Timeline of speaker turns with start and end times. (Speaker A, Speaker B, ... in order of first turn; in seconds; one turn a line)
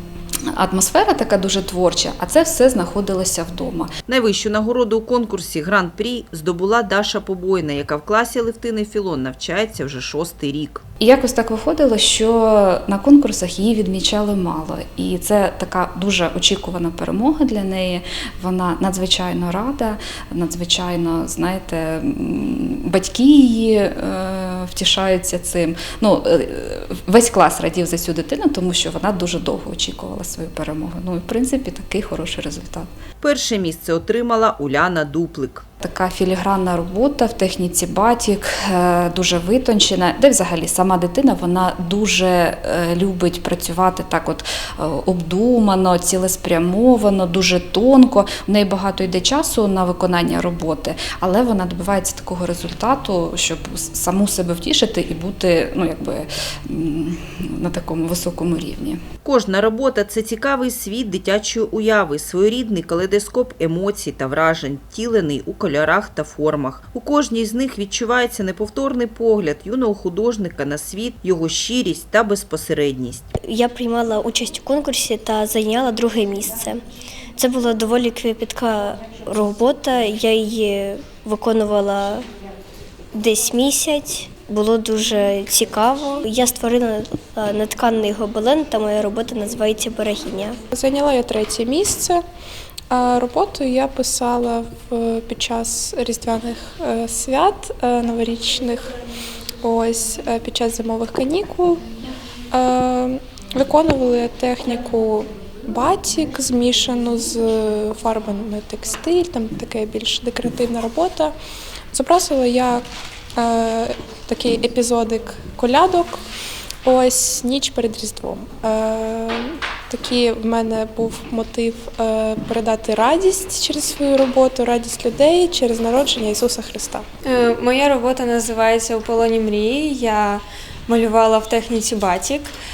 Speaker A: 0.5-3.9
Speaker B: 4.1-10.8
Speaker A: 11.0-32.9
Speaker B: 33.2-35.6
Speaker A: 35.8-59.0
Speaker B: 59.2-73.3
Speaker C: 73.4-76.8
Speaker C: 77.4-82.2
Speaker C: 83.1-90.6
Speaker D: 90.7-92.2
Speaker D: 92.9-98.9
Speaker D: 99.6-101.8
Speaker D: 102.5-111.3
Speaker D: 111.9-116.2
Speaker D: 116.8-127.0
Speaker E: 127.2-132.5